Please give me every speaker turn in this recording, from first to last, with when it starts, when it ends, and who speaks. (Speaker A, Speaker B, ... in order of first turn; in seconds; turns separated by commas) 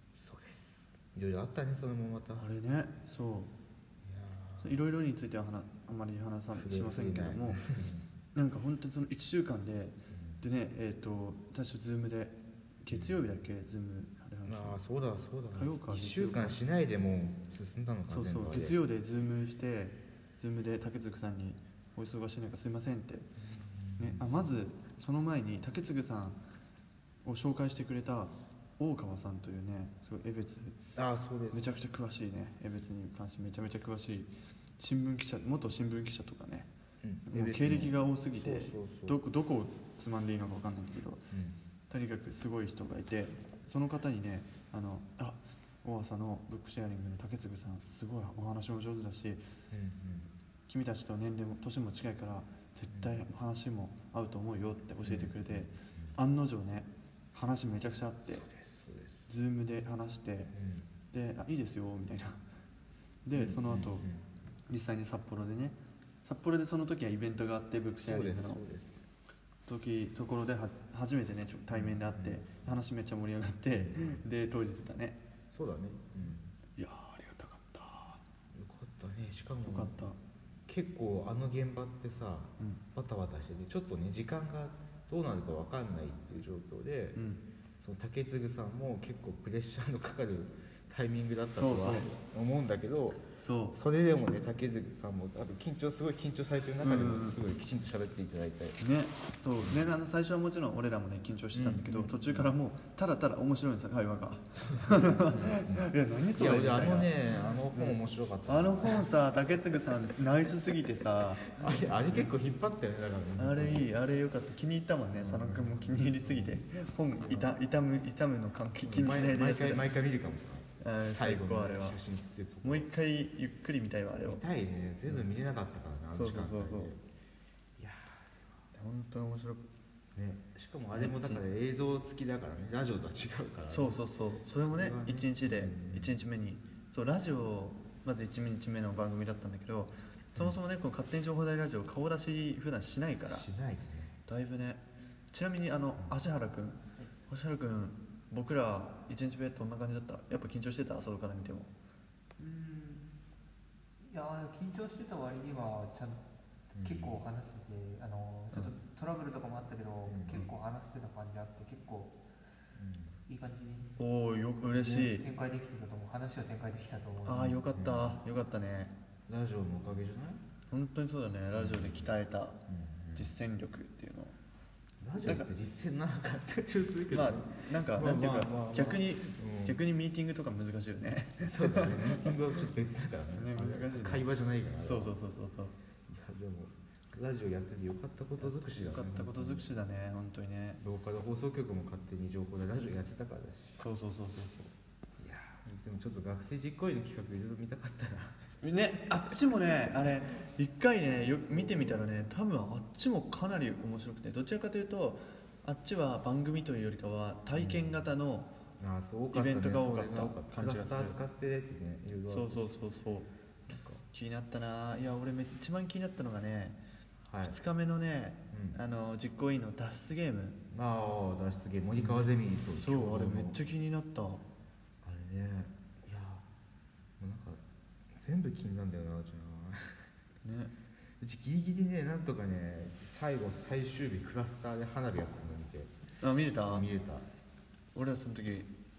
Speaker A: 0.2-2.5, Speaker B: 2.4-3.5, Speaker A: 4.0-4.8, Speaker B: 4.6-7.6, Speaker A: 6.5-8.1, Speaker B: 8.3-14.8, Speaker A: 10.1-10.4, Speaker A: 12.9-13.2, Speaker A: 14.4-18.8, Speaker B: 15.5-16.6, Speaker B: 18.1-23.3, Speaker A: 23.4-24.5, Speaker B: 24.0-26.4, Speaker B: 27.2-30.8, Speaker A: 30.9-31.6, Speaker B: 31.5-36.7, Speaker A: 37.0-39.2, Speaker B: 37.2-41.2, Speaker A: 41.3-41.6, Speaker B: 41.9-49.5, Speaker A: 49.7-50.3, Speaker B: 50.7-58.4, Speaker A: 52.9-53.2, Speaker A: 55.0-56.1, Speaker A: 58.2-59.3, Speaker B: 59.3-60.5, Speaker A: 60.5-60.9, Speaker B: 61.1-62.4, Speaker B: 63.2-64.0, Speaker A: 63.3-64.3, Speaker B: 64.7-68.6, Speaker A: 68.0-69.0, Speaker B: 69.7-75.2, Speaker A: 71.7-72.7, Speaker A: 73.7-74.2, Speaker A: 75.5-76.5, Speaker B: 76.8-78.2, Speaker A: 78.5-80.1, Speaker B: 79.6-80.2, Speaker A: 80.7-87.2, Speaker B: 87.1-87.4, Speaker A: 87.8-98.8, Speaker B: 91.5-92.1, Speaker B: 93.4-93.8, Speaker B: 96.8-97.4, Speaker B: 98.8-107.1, Speaker A: 99.6-99.9, Speaker A: 101.5-102.5, Speaker A: 104.5-109.1, Speaker B: 107.7-112.3, Speaker A: 109.7-110.1, Speaker A: 111.5-113.9, Speaker B: 113.4-119.9, Speaker A: 115.2-116.6, Speaker A: 117.1-117.5, Speaker A: 118.8-122.9, Speaker B: 120.8-122.0, Speaker B: 122.6-124.4, Speaker A: 124.2-127.0, Speaker B: 126.1-126.9, Speaker A: 127.8-128.7, Speaker B: 128.7-129.7, Speaker A: 130.1-136.2, Speaker B: 130.9-131.4, Speaker B: 133.7-143.4, Speaker A: 143.3-144.2, Speaker B: 144.3-151.7, Speaker C: 152.4-153.0, Speaker C: 154.0-156.2, Speaker A: 156.7-157.2, Speaker C: 156.8-162.2, Speaker A: 160.1-160.5, Speaker A: 162.7-163.2, Speaker C: 163.3-163.9, Speaker B: 164.0-165.3, Speaker C: 164.7-167.6, Speaker B: 167.2-168.9, Speaker A: 167.5-168.2, Speaker A: 169.3-170.4, Speaker B: 170.7-172.6, Speaker A: 171.5-172.1, Speaker A: 172.7-173.3, Speaker B: 173.1-174.4, Speaker A: 175.0-179.8, Speaker B: 175.2-175.5, Speaker B: 177.1-182.3, Speaker A: 181.4-185.1, Speaker B: 183.3-184.3, Speaker B: 184.8-185.7, Speaker A: 186.1-189.7, Speaker B: 188.4-190.8, Speaker A: 190.8-193.8, Speaker B: 193.8-194.7, Speaker A: 195.2-198.4, Speaker B: 198.6-208.5, Speaker A: 201.1-202.1, Speaker A: 207.5-208.0, Speaker A: 208.8-212.7, Speaker B: 209.3-211.2, Speaker B: 212.3-213.3, Speaker A: 213.7-214.0, Speaker B: 214.0-216.8, Speaker A: 217.3-217.6, Speaker B: 217.4-220.6, Speaker A: 218.5-218.8, Speaker A: 220.7-223.6, Speaker B: 221.9-224.4, Speaker A: 225.0-226.5, Speaker A: 227.2-230.1, Speaker B: 230.4-230.7, Speaker A: 231.2-235.9, Speaker B: 236.2-236.9, Speaker A: 236.6-237.3, Speaker B: 237.9-238.7